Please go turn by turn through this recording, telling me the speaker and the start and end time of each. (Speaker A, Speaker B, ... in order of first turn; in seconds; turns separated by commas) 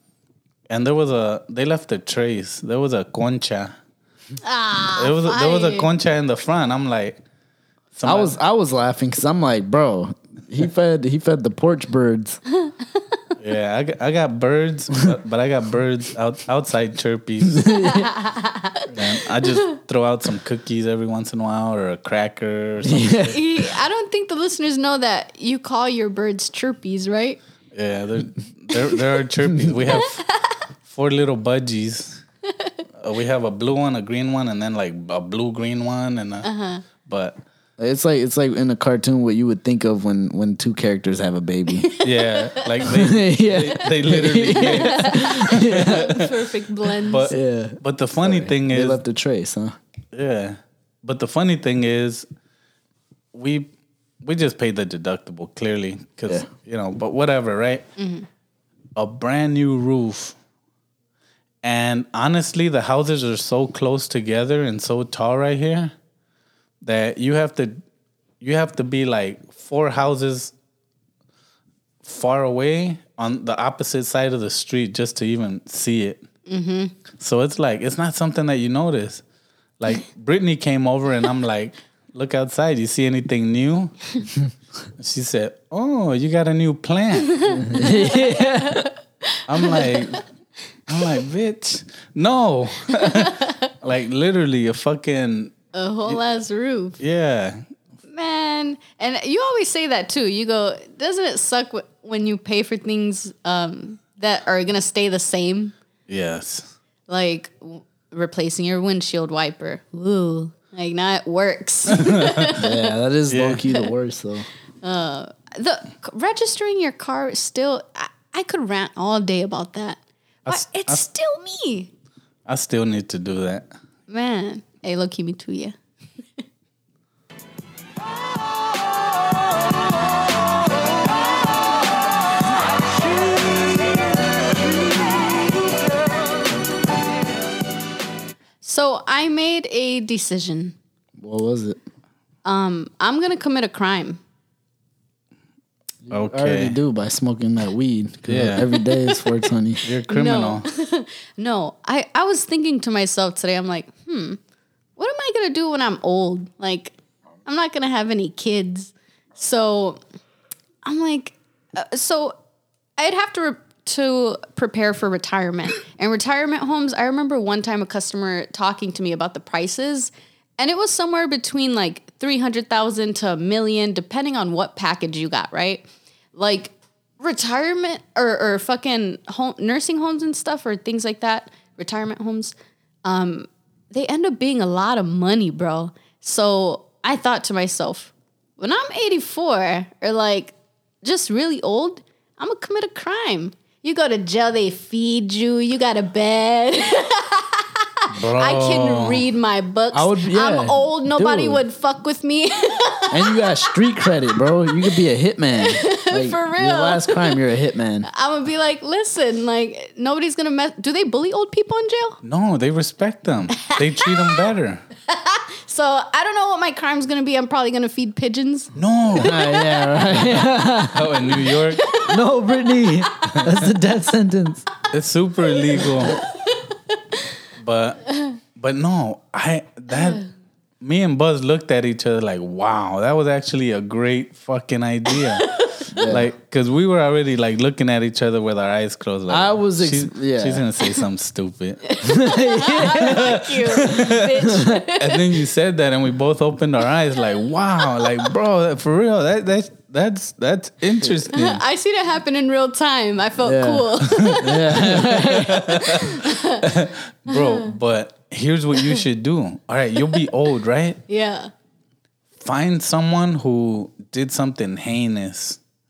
Speaker A: 0.7-3.8, Speaker B: 4.4-5.9, Speaker A: 5.0-7.2, Speaker A: 8.0-8.4, Speaker C: 8.0-12.4, Speaker A: 13.4-17.7, Speaker C: 17.5-18.1, Speaker B: 17.9-19.6, Speaker A: 18.9-23.4, Speaker C: 22.8-23.4, Speaker B: 23.3-27.4, Speaker A: 27.7-30.2, Speaker B: 29.9-30.5, Speaker A: 30.9-32.2, Speaker A: 33.0-36.5, Speaker B: 36.4-36.8, Speaker A: 37.0-37.4, Speaker C: 37.8-41.9, Speaker A: 42.0-46.3, Speaker C: 42.9-46.2, Speaker B: 44.6-47.3, Speaker A: 47.1-49.0, Speaker C: 47.3-49.8, Speaker A: 50.1-52.3, Speaker A: 53.3-53.7, Speaker A: 54.2-57.9, Speaker B: 58.0-58.3, Speaker A: 59.0-60.4, Speaker A: 61.6-65.9, Speaker A: 66.8-67.8, Speaker A: 68.4-70.5, Speaker A: 72.0-76.2, Speaker B: 76.5-76.9, Speaker A: 77.2-79.2, Speaker A: 79.8-84.0, Speaker A: 85.0-87.7, Speaker B: 87.3-90.2, Speaker C: 87.7-88.8, Speaker A: 89.5-90.2, Speaker A: 90.9-95.5, Speaker B: 92.9-93.7, Speaker B: 95.7-97.0, Speaker A: 97.0-97.7, Speaker B: 98.1-105.8, Speaker A: 106.1-106.7, Speaker B: 107.1-112.7, Speaker A: 112.0-112.5, Speaker C: 112.5-114.5, Speaker A: 113.3-113.6, Speaker B: 114.8-121.9, Speaker A: 120.5-121.0, Speaker A: 122.5-123.7, Speaker B: 124.1-125.8, Speaker B: 138.6-140.8, Speaker C: 141.2-141.8, Speaker B: 142.4-144.2, Speaker C: 146.1-149.8, Speaker A: 146.1-146.8, Speaker A: 148.3-148.7, Speaker B: 148.8-149.2, Speaker A: 149.8-150.7, Speaker B: 150.1-154.4, Speaker B: 155.0-156.9, Speaker B: 157.5-160.0, Speaker B: 160.8-162.4, Speaker B: 163.0-182.5, Speaker B: 183.1-203.5, Speaker A: 198.1-199.2, Speaker C: 199.9-201.6, Speaker C: 203.1-208.1, Speaker B: 205.6-207.4, Speaker B: 208.1-212.2, Speaker A: 212.2-214.8, Speaker B: 213.6-214.3, Speaker B: 215.1-218.7, Speaker A: 218.8-219.4, Speaker C: 219.2-221.1, Speaker B: 219.2-220.4, Speaker A: 220.9-222.0, Speaker B: 221.5-223.0, Speaker C: 222.1-224.7, Speaker A: 224.9-226.2, Speaker A: 227.6-230.2, Speaker B: 229.9-230.2, Speaker A: 230.8-241.9, Speaker B: 235.4-235.9, Speaker C: 235.9-236.3, Speaker C: 239.3-240.7, Speaker B: 241.9-245.3, Speaker C: 242.0-243.4, Speaker A: 242.9-244.2, Speaker C: 244.5-244.8, Speaker A: 245.0-251.6, Speaker B: 251.3-254.9, Speaker C: 253.4-255.7, Speaker A: 254.3-261.0, Speaker B: 255.4-256.6, Speaker B: 257.3-257.7, Speaker B: 261.1-261.5, Speaker A: 262.4-265.6